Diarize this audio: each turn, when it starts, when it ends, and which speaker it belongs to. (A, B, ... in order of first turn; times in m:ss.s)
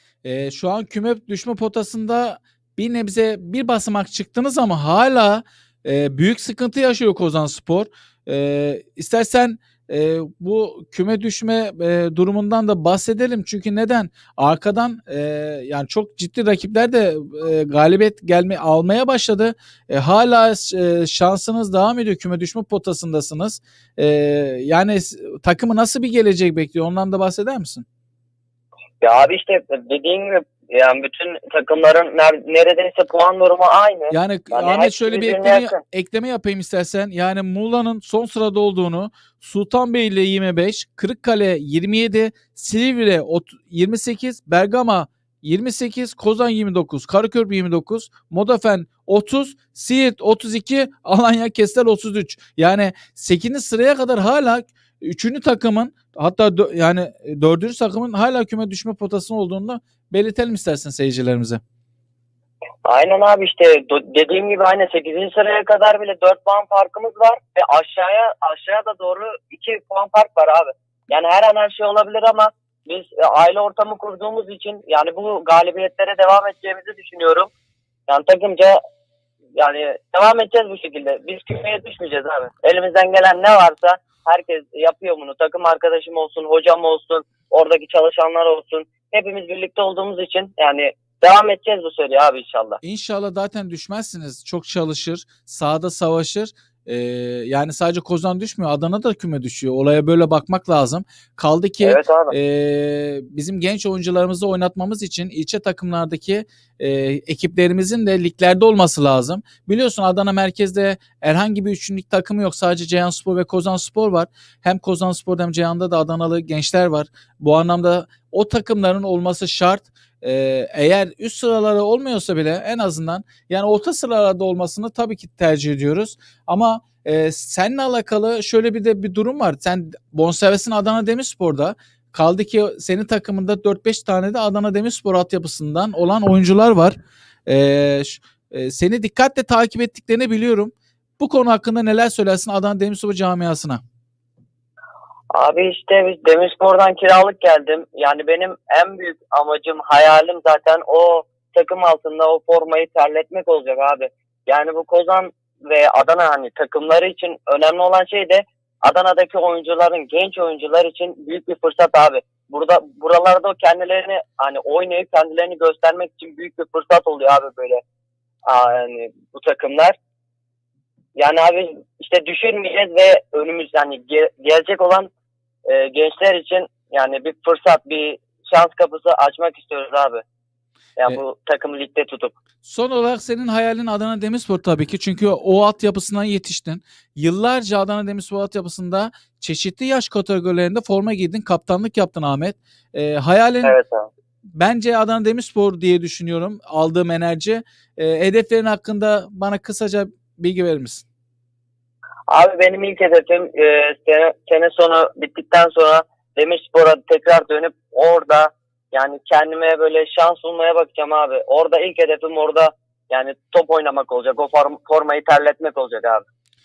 0:00.2-0:27.8 A
0:29.0-0:35.8 B
0:34.1-1:01.6 A
1:02.8-1:17.5 B
1:18.1-1:18.8 B
1:19.6-1:32.8 B
1:32.8-2:23.8 A
1:41.8-1:42.3 B
2:25.3-2:47.8 B
2:48.4-2:50.0 B
2:51.1-2:55.1 B
2:55.6-3:00.2 B
3:01.0-3:02.3 B
3:02.6-3:13.8 A
3:13.6-3:14.1 B
3:14.5-3:21.0 A
3:22.3-3:36.2 B